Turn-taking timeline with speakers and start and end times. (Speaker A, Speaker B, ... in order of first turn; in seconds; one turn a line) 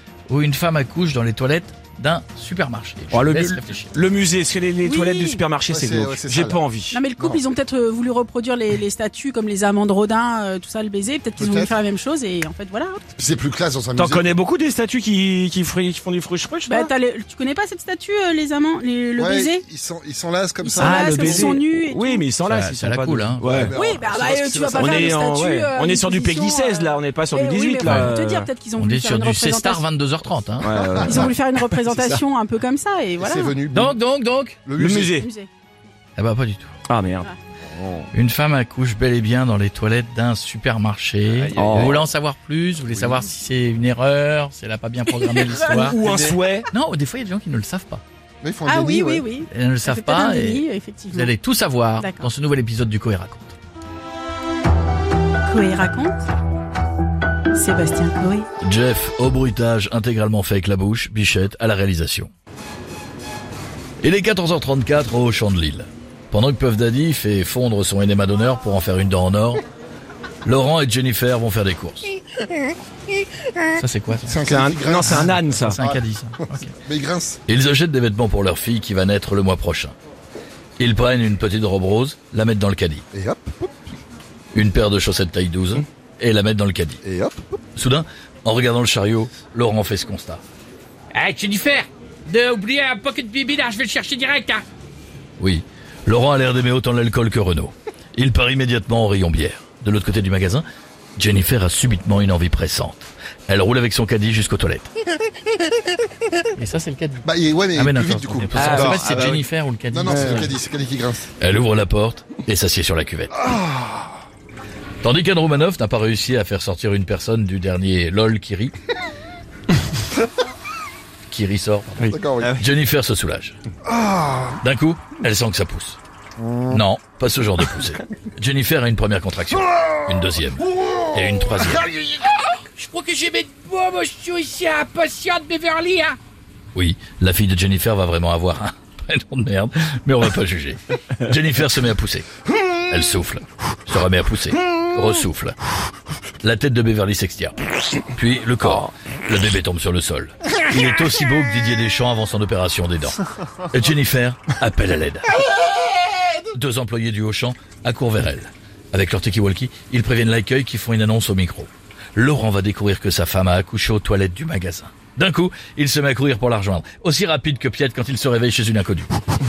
Speaker A: 0.3-4.0
Speaker B: 3.1-7.0
Speaker C: 4.8-5.4
Speaker D: 5.7-6.6
Speaker C: 6.9-13.0
Speaker D: 11.3-11.8
Speaker D: 13.1-14.3
Speaker B: 14.0-16.9
Speaker C: 16.7-19.6
Speaker D: 19.1-21.6
Speaker C: 20.6-22.2
Speaker B: 20.8-23.7
Speaker A: 22.4-23.6
Speaker D: 23.4-25.1
Speaker C: 23.7-29.8
Speaker B: 24.7-28.5
Speaker A: 27.8-28.1
Speaker A: 28.8-31.2
Speaker B: 30.6-32.2
Speaker C: 30.9-33.6
Speaker D: 33.2-34.0
Speaker A: 33.7-34.6
Speaker D: 34.6-35.2
Speaker B: 34.8-35.3
Speaker C: 35.1-35.5
Speaker A: 36.2-36.7
Speaker B: 36.9-37.3
Speaker D: 37.8-38.0
Speaker A: 38.1-46.0
Speaker B: 41.5-42.0
Speaker C: 45.4-45.7
Speaker B: 45.5-46.7
Speaker D: 46.0-46.4
Speaker A: 46.7-48.0
Speaker D: 48.4-49.2
Speaker C: 48.7-51.3
Speaker A: 49.5-53.5
Speaker C: 52.0-52.3
Speaker C: 55.5-56.2
Speaker C: 57.5-58.5
Speaker A: 58.6-62.3
Speaker A: 64.0-69.6
Speaker A: 70.4-72.1
Speaker A: 73.7-74.4
Speaker D: 74.2-75.3
Speaker B: 74.5-75.8
Speaker A: 75.0-76.8
Speaker D: 76.5-77.4
Speaker A: 77.5-79.9
Speaker A: 80.8-83.0
Speaker D: 83.1-83.7
Speaker A: 84.5-87.0
Speaker D: 87.0-87.4
Speaker A: 87.8-90.4
Speaker E: 91.1-94.6
Speaker A: 95.4-100.6
Speaker A: 101.2-104.9
Speaker A: 106.5-110.5
Speaker D: 107.2-111.3
Speaker B: 108.5-109.3
Speaker B: 110.1-110.5
Speaker A: 111.4-113.4
Speaker D: 113.4-114.1
Speaker A: 115.0-118.8
Speaker A: 121.3-123.5
Speaker D: 122.1-122.6
Speaker D: 123.8-124.6
Speaker A: 124.6-126.0
Speaker D: 126.4-126.8
Speaker A: 126.7-131.9
Speaker D: 131.8-132.2
Speaker E: 132.7-136.2
Speaker A: 136.7-142.3
Speaker A: 142.8-145.6
Speaker A: 146.4-155.3
Speaker A: 156.5-169.1